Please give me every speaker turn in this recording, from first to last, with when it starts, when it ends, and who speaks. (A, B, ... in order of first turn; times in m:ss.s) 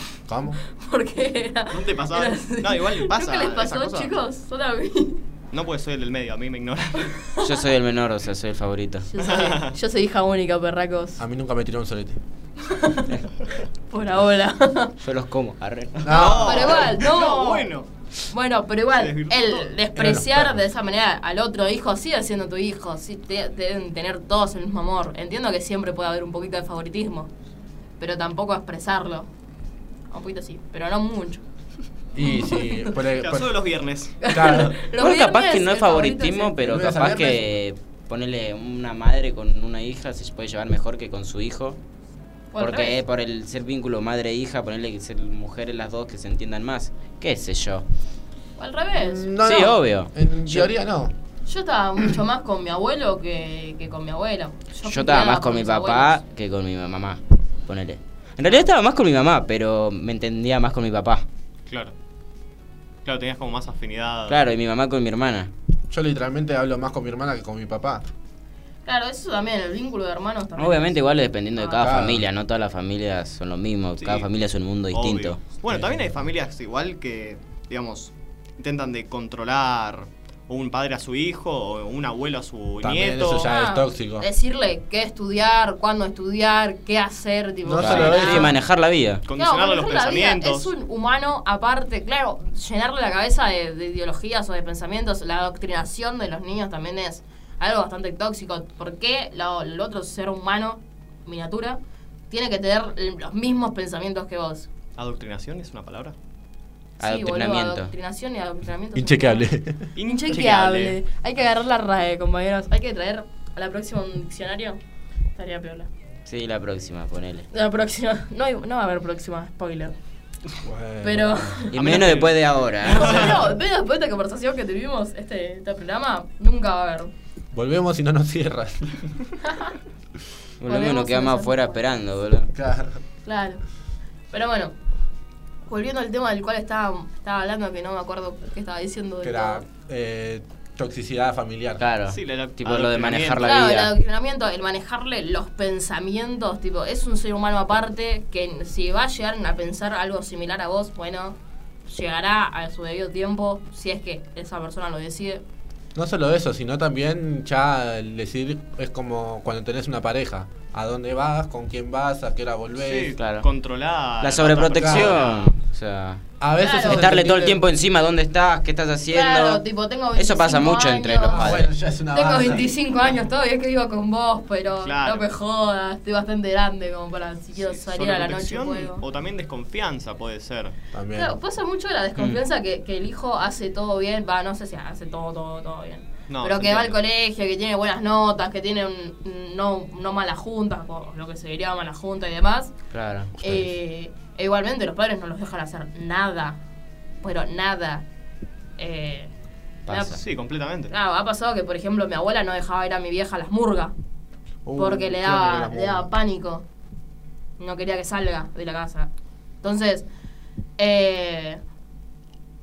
0:00.3-0:00.6 A
0:00.6-0:05.2 B
0:01.7-0:04.1 C
0:05.5-0:07.2 C
0:07.4-0:09.1 D
0:09.1-0:11.2 B
0:09.2-0:09.8 C
0:11.2-0:12.2 A
0:12.7-0:13.1 B
0:13.9-0:14.9 B
0:15.0-0:16.5 D
0:16.0-0:16.7 A
0:16.1-0:17.9 C
0:16.4-0:17.7 B
0:18.3-0:27.3 B
0:18.9-0:19.7 C
0:20.0-0:20.6 A
0:28.0-0:29.3 B
0:30.1-0:31.4 B
0:32.2-0:33.6 A
0:32.2-0:32.9 B
0:33.2-0:34.2 C
0:34.2-0:36.5 B
0:34.3-0:34.8 A
0:35.0-0:41.8 D
0:36.6-0:37.5 A
0:42.5-0:43.0 B
0:42.6-0:47.8 D
0:48.6-0:49.3 B
0:49.0-0:51.1 A
0:49.4-0:50.7 D
0:51.5-0:56.2 B
0:54.8-1:01.3 D
1:01.7-1:01.9 C
1:03.0-1:04.4 C
1:04.3-1:05.5 D
1:05.9-1:08.0 A
1:08.9-1:11.8 B
1:10.6-1:15.4 D
1:11.8-1:12.2 A
1:14.0-1:14.3 C
1:14.9-1:23.5 C
1:15.7-1:16.0 A
1:22.8-1:24.3 A
1:23.4-1:28.5 B
1:27.6-1:28.5 A
1:27.8-1:29.2 D
1:29.3-1:30.7 C
1:29.4-1:44.7 B
1:45.0-1:46.2 C
1:47.0-1:47.9 D
1:47.0-1:49.5 B
1:49.0-1:49.9 A
1:50.0-1:51.0 C
1:50.0-1:54.8 B
1:55.4-1:55.9 B
1:56.3-1:57.5 D
1:57.5-2:00.0 B
2:00.6-2:01.6 A
2:01.0-2:01.8 B
2:01.7-2:03.4 D
2:01.8-2:03.4 C
2:02.8-2:07.1 B
2:07.5-2:09.0 A
2:09.4-2:09.7 B
2:10.6-2:12.5 D
2:10.7-2:11.8 B
2:12.5-2:13.0 A
2:13.2-2:13.6 B
2:14.3-2:14.7 B
2:15.7-2:19.7 B
2:19.2-2:21.8 A
2:21.8-2:23.9 D
2:22.1-2:23.6 C
2:23.4-2:35.4 B
2:36.0-2:43.2 A
2:42.8-2:45.5 C
2:43.2-2:43.5 D
2:44.2-2:46.2 D
2:44.8-2:45.2 A
2:46.4-2:47.6 A
2:46.6-2:47.0 B
2:46.8-2:49.6 D
2:49.1-2:51.4 B
2:50.2-2:51.7 D
2:51.3-2:52.7 A
2:52.1-2:59.0 B
2:54.8-2:55.3 C
2:57.6-3:00.8 C
3:00.9-3:01.4 A
3:01.1-3:12.7 B
3:06.3-3:07.0 C
3:12.9-3:13.7 D
3:13.4-3:16.6 B
3:17.2-3:18.0 B
3:18.8-3:19.3 B
3:19.9-3:20.2 D
3:19.9-3:20.2 B
3:20.2-3:20.9 C
3:20.9-3:23.9 B
3:24.6-3:26.1 A
3:24.8-3:26.6 B
3:27.6-3:29.1 B
3:29.6-3:30.1 B
3:30.8-3:31.6 B